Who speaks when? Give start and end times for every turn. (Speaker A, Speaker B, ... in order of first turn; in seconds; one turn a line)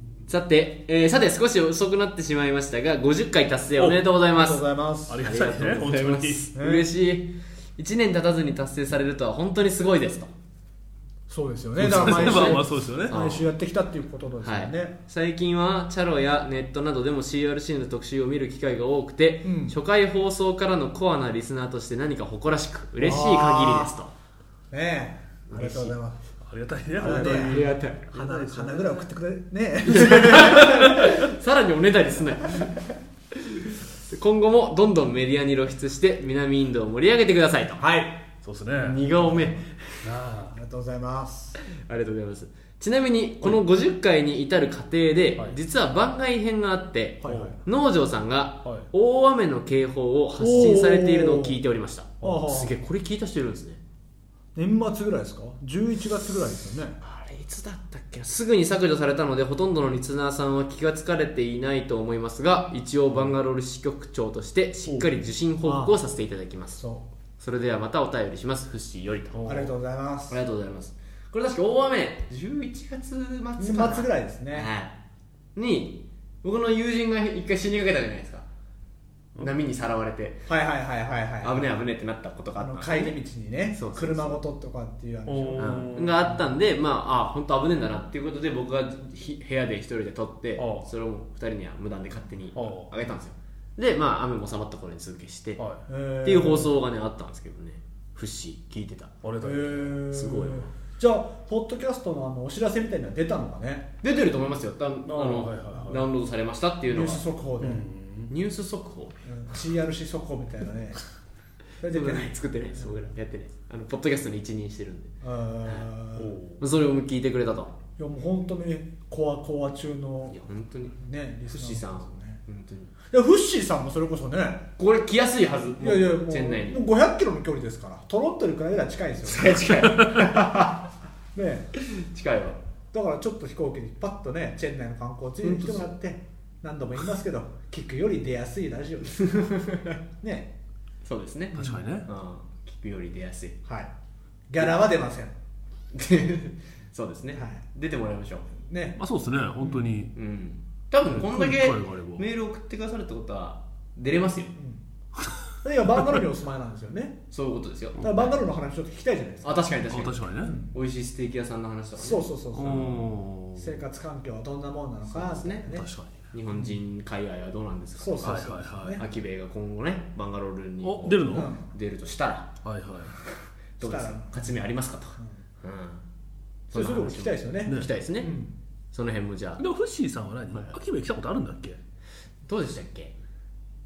Speaker A: 0.3-4.6
Speaker B: 4.3-5.2
Speaker C: 5.1-6.5
Speaker A: 5.2-10.3
Speaker B: 6.5-6.9
Speaker B: 11.3-14.9
Speaker C: 11.8-13.2
Speaker A: 11.8-13.5
Speaker A: 14.4-24.1
Speaker B: 19.4-19.7
Speaker B: 23.0-23.9
Speaker B: 24.7-26.2
Speaker A: 25.5-25.9
Speaker C: 26.4-29.0
Speaker B: 27.0-31.1
Speaker A: 27.0-28.1
Speaker A: 29.9-37.8
Speaker B: 37.8-38.2
Speaker C: 38.4-39.0
Speaker A: 38.7-40.0
Speaker B: 39.3-39.5
Speaker C: 40.0-40.5
Speaker B: 40.5-41.6
Speaker A: 41.7-53.8
Speaker B: 47.2-47.6
Speaker C: 47.2-47.6
Speaker C: 48.6-48.9
Speaker B: 50.4-51.6
Speaker B: 52.2-52.8
Speaker B: 54.5-57.0
Speaker A: 57.0-66.8
Speaker C: 64.9-65.1
Speaker B: 65.6-66.0
Speaker B: 66.8-67.1
Speaker A: 67.4-69.7
Speaker C: 69.3-69.7
Speaker B: 69.4-70.4
Speaker A: 70.3-75.0
Speaker B: 73.6-74.7
Speaker A: 75.5-78.5
Speaker A: 79.4-80.5
Speaker B: 80.5-81.8
Speaker A: 81.4-83.2
Speaker B: 82.6-85.9
Speaker A: 83.7-84.4
Speaker C: 85.2-86.3
Speaker A: 85.6-95.6
Speaker C: 90.5-90.9
Speaker C: 92.5-92.9
Speaker C: 95.6-95.8
Speaker B: 95.9-96.7
Speaker A: 96.2-99.1
Speaker C: 99.2-100.0
Speaker B: 99.4-103.9
Speaker A: 100.1-100.7
Speaker A: 104.0-107.2
Speaker C: 105.0-106.0
Speaker B: 106.9-107.8
Speaker C: 107.6-108.3
Speaker A: 108.3-109.1
Speaker B: 109.2-111.0
Speaker B: 111.8-112.9
Speaker A: 111.9-115.1
Speaker B: 115.2-116.3
Speaker C: 116.2-116.6
Speaker A: 116.6-117.8
Speaker B: 118.0-120.4
Speaker A: 120.3-122.9
Speaker B: 121.0-122.4
Speaker B: 123.1-124.7
Speaker A: 124.8-126.8
Speaker B: 125.8-130.8
Speaker A: 129.2-130.8
Speaker B: 131.3-131.7
Speaker A: 131.8-132.6
Speaker B: 132.9-139.6
Speaker A: 139.4-140.0
Speaker B: 140.2-140.5
Speaker A: 141.0-143.6
Speaker C: 141.5-142.1
Speaker B: 141.6-141.8
Speaker B: 143.7-143.9
Speaker B: 144.5-145.3
Speaker A: 145.9-148.5
Speaker B: 147.3-147.6
Speaker B: 148.6-149.0
Speaker C: 148.9-150.1
Speaker A: 150.1-154.5
Speaker C: 151.0-152.2
Speaker C: 155.2-155.5
Speaker B: 155.6-157.2
Speaker A: 157.3-158.3
Speaker B: 158.0-159.7
Speaker A: 159.4-162.3
Speaker C: 159.9-160.5
Speaker B: 160.4-160.7
Speaker B: 162.0-165.9
Speaker C: 162.5-163.8
Speaker A: 165.1-165.7
Speaker C: 165.7-166.1
Speaker A: 166.3-168.4
Speaker B: 166.5-166.8
Speaker B: 168.0-169.0
Speaker C: 168.2-169.0
Speaker A: 169.0-172.5
Speaker C: 170.8-171.5
Speaker B: 171.3-171.7
Speaker C: 172.6-173.2
Speaker A: 173.8-176.0
Speaker B: 173.8-174.6
Speaker A: 176.7-178.3
Speaker B: 176.7-178.5
Speaker A: 178.9-179.6
Speaker C: 179.6-181.8
Speaker A: 182.4-183.1